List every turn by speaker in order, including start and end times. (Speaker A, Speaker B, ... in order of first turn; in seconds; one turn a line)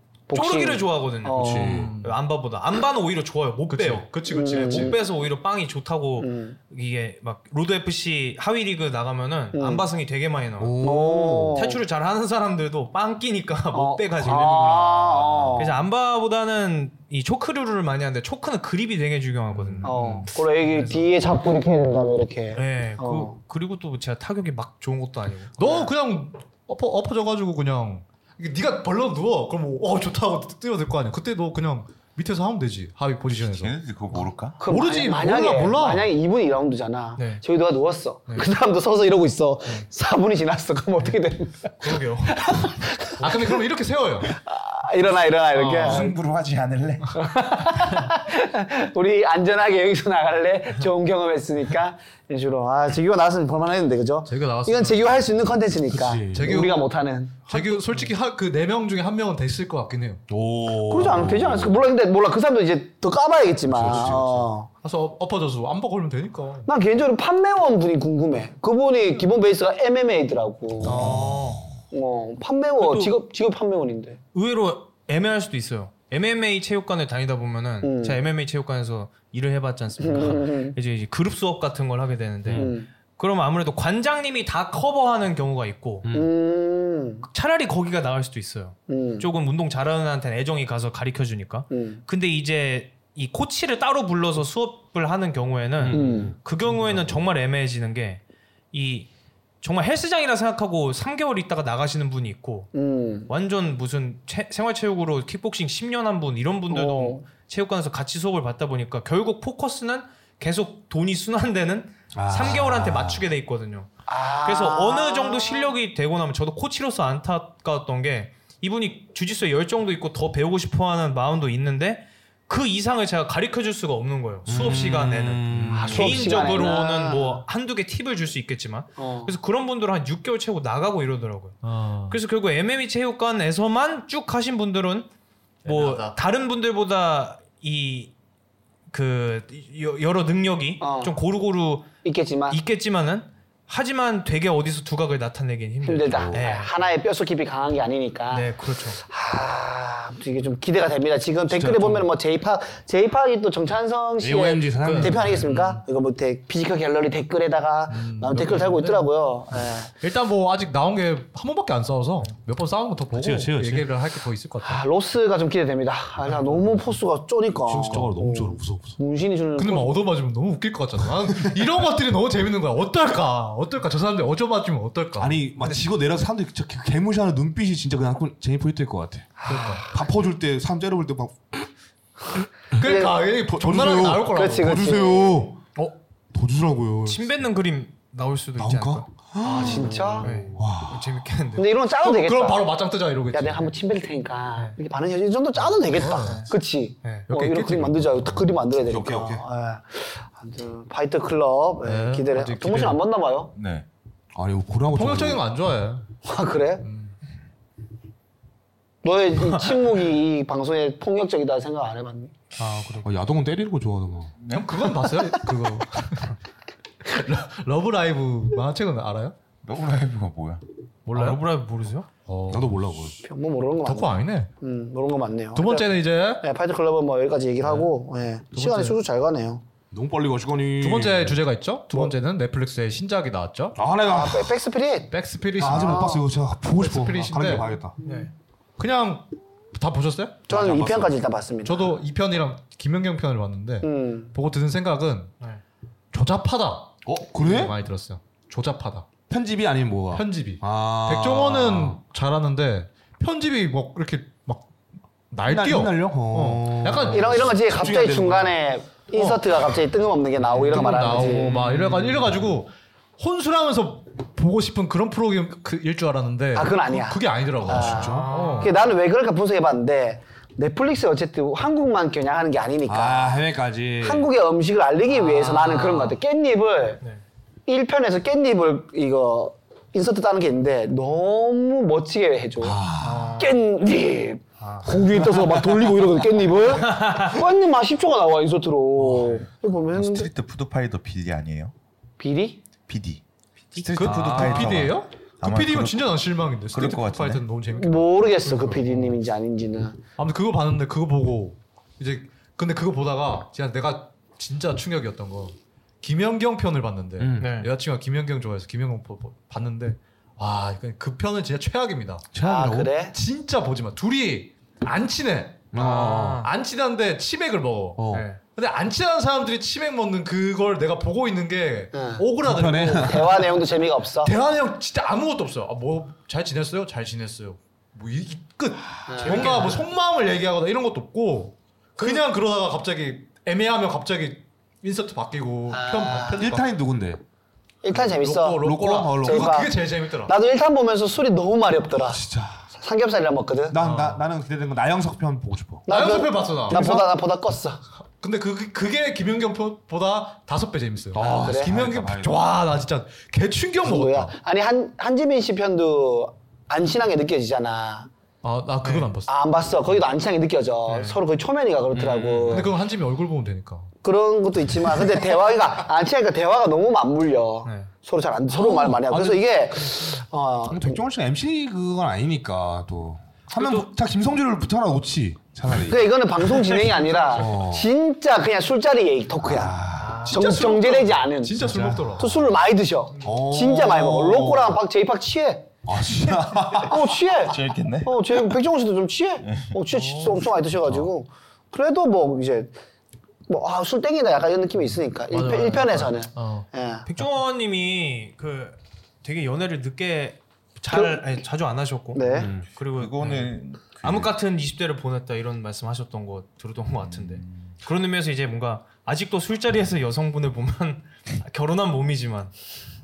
Speaker A: 0.3-1.9
Speaker B: 0.3-10.8
Speaker C: 1.4-1.9
Speaker D: 1.6-2.2
Speaker D: 3.7-4.9
Speaker A: 4.3-5.0
Speaker A: 6.2-6.6
Speaker A: 9.5-9.8
Speaker C: 10.6-11.6
Speaker A: 10.8-11.8
Speaker B: 11.5-21.1
Speaker A: 13.7-15.7
Speaker C: 14.2-14.9
Speaker D: 19.5-20.3
Speaker A: 19.8-23.4
Speaker B: 22.5-25.8
Speaker D: 25.6-33.7
Speaker E: 33.4-34.6
Speaker A: 34.6-43.6
Speaker D: 34.6-36.1
Speaker B: 37.2-37.4
Speaker B: 41.8-42.6
Speaker D: 43.2-44.4
Speaker A: 44.3-46.1
Speaker D: 45.7-46.1
Speaker E: 45.8-47.3
Speaker A: 47.1-57.9
Speaker D: 54.2-55.1
Speaker C: 55.9-56.6
Speaker D: 56.3-56.8
Speaker D: 57.4-60.2
Speaker C: 60.3-61.8
Speaker A: 60.8-64.7
Speaker C: 63.7-64.5
Speaker D: 64.8-66.7
Speaker A: 66.7-71.1
Speaker C: 70.8-71.7
Speaker D: 70.8-71.6
Speaker A: 71.9-74.2
Speaker B: 72.8-73.2
Speaker B: 74.3-86.0
Speaker A: 77.8-78.2
Speaker A: 80.0-80.7
Speaker A: 82.5-82.9
Speaker C: 86.0-86.3
Speaker A: 86.1-87.2
Speaker B: 87.2-99.1
Speaker A: 88.9-89.3
Speaker A: 91.7-92.0
Speaker C: 95.8-97.0
Speaker A: 95.9-96.3
Speaker B: 99.6-102.7
Speaker A: 102.7-103.3
Speaker B: 103.3-113.9
Speaker A: 106.7-107.2
Speaker C: 112.1-113.2
Speaker A: 114.1-115.7
Speaker B: 114.4-135.1
Speaker C: 124.5-126.2
Speaker D: 125.5-126.0
Speaker A: 125.7-127.4
Speaker A: 129.0-129.3
Speaker D: 131.6-132.2
Speaker D: 135.6-136.2
Speaker B: 135.6-138.1
Speaker B: 138.9-141.9
Speaker A: 140.8-141.1
Speaker A: 142.0-142.6
Speaker B: 142.5-146.7
Speaker A: 145.8-159.9
Speaker C: 146.1-146.6
Speaker B: 148.3-149.0
Speaker C: 151.5-152.1
Speaker C: 154.2-155.4
Speaker D: 154.8-155.5
Speaker B: 155.4-155.7
Speaker D: 157.9-159.1
Speaker D: 160.0-164.8
Speaker C: 163.1-163.9
Speaker A: 164.6-170.0
Speaker D: 166.2-167.0
Speaker C: 167.7-169.0
Speaker D: 167.8-168.2
Speaker D: 169.6-175.4
Speaker C: 175.2-181.7
Speaker D: 179.4-179.9
Speaker A: 179.5-179.7
Speaker D: 182.8-185.0
Speaker A: 182.8-183.2
Speaker C: 183.5-185.7
Speaker A: 184.3-185.4
Speaker C: 186.3-187.3
Speaker B: 187.0-191.7
Speaker C: 188.6-191.0
Speaker A: 189.4-190.5
Speaker A: 191.6-192.7
Speaker D: 192.0-193.7
Speaker A: 193.3-203.5
Speaker D: 195.7-196.5
Speaker B: 196.1-196.5
Speaker D: 197.3-198.6
Speaker C: 198.8-199.4
Speaker E: 198.9-199.3
Speaker D: 201.8-203.0
Speaker E: 203.5-203.8
Speaker C: 204.3-205.4
Speaker D: 204.9-206.1
Speaker A: 206.2-206.8
Speaker D: 206.8-207.1
Speaker A: 209.0-212.3
Speaker B: 212.6-213.1
Speaker C: 213.0-214.4
Speaker E: 214.4-214.9
Speaker D: 214.5-216.3
Speaker D: 217.0-219.3
Speaker E: 219.6-220.6
Speaker D: 221.1-221.4
Speaker B: 221.1-222.1
Speaker D: 222.2-222.7
Speaker C: 222.5-223.2
Speaker A: 223.2-229.6
Speaker D: 223.8-224.5
Speaker D: 225.5-226.4
Speaker D: 227.6-227.9
Speaker D: 228.5-229.0
Speaker C: 229.9-231.4
Speaker D: 230.8-233.8
Speaker C: 233.8-234.6
Speaker A: 234.1-236.2
Speaker D: 235.1-237.8
Speaker C: 235.6-237.9
Speaker B: 238.0-238.3
Speaker A: 238.0-238.3
Speaker D: 238.8-240.4
Speaker A: 240.5-241.9
Speaker C: 240.5-241.2
Speaker D: 241.6-245.3
Speaker A: 243.8-244.3
Speaker D: 246.1-249.1
Speaker C: 247.0-247.8
Speaker C: 249.3-252.0
Speaker D: 250.1-254.7
Speaker D: 255.3-257.6
Speaker C: 255.4-258.6
Speaker A: 257.0-261.5
Speaker D: 259.1-259.4
Speaker D: 260.5-268.7
Speaker C: 261.1-262.4
Speaker A: 266.5-273.4
Speaker C: 267.7-268.3
Speaker B: 267.9-268.7
Speaker C: 272.9-274.3
Speaker A: 274.0-277.0
Speaker B: 275.1-276.1
Speaker A: 277.7-290.3
Speaker C: 282.6-283.3
Speaker B: 283.0-283.6
Speaker B: 284.6-285.0
Speaker B: 286.8-287.4
Speaker E: 289.9-291.7
Speaker A: 292.2-292.6
Speaker E: 292.9-293.2
Speaker E: 293.7-296.2
Speaker B: 293.9-294.8
Speaker D: 293.9-299.2
Speaker E: 296.7-297.4
Speaker A: 297.7-300.0
Speaker B: 298.4-298.8
Speaker D: 300.2-312.2
Speaker C: 307.2-307.5
Speaker B: 307.4-307.7
Speaker C: 312.3-312.9
Speaker A: 312.4-313.1
Speaker D: 313.1-315.7
Speaker C: 315.7-316.4
Speaker B: 315.7-316.5
Speaker D: 316.4-323.5
Speaker C: 317.9-318.3
Speaker B: 318.1-318.4
Speaker A: 321.9-322.2
Speaker C: 322.4-323.3
Speaker A: 323.0-324.3
Speaker D: 324.2-336.7
Speaker A: 329.1-329.8
Speaker C: 329.2-329.6
Speaker A: 335.7-336.4
Speaker C: 336.3-337.2
Speaker A: 337.8-338.6
Speaker D: 337.9-340.3
Speaker C: 338.6-339.6
Speaker A: 339.1-342.2
Speaker C: 342.0-342.7
Speaker A: 342.7-343.8
Speaker C: 343.7-345.9
Speaker D: 343.8-344.2
Speaker A: 345.9-347.8
Speaker D: 345.9-347.0
Speaker C: 346.7-347.0
Speaker D: 348.2-354.3
Speaker C: 351.1-352.3
Speaker A: 351.1-351.7
Speaker E: 351.7-352.3
Speaker A: 353.8-358.1
Speaker D: 358.4-359.3
Speaker B: 358.8-359.1
Speaker A: 359.2-362.7
Speaker B: 360.9-361.2
Speaker B: 361.9-362.4
Speaker D: 362.5-363.9
Speaker A: 364.0-371.0
Speaker B: 367.6-367.9
Speaker C: 368.5-369.4
Speaker C: 370.7-376.1
Speaker B: 373.5-373.9
Speaker A: 375.9-385.7
Speaker B: 376.5-377.5
Speaker C: 377.3-377.9
Speaker C: 379.4-380.4
Speaker B: 380.0-380.9
Speaker D: 380.3-382.4
Speaker C: 381.6-382.2
Speaker C: 383.2-384.8
Speaker C: 385.8-387.1
Speaker A: 386.7-392.7
Speaker E: 387.4-388.4
Speaker E: 389.4-389.8
Speaker B: 389.9-390.4
Speaker A: 393.5-397.1
Speaker D: 395.3-396.7
Speaker B: 397.1-412.5
Speaker A: 400.9-401.2
Speaker A: 402.1-402.5
Speaker C: 402.3-402.7
Speaker E: 402.8-404.3
Speaker E: 406.9-407.7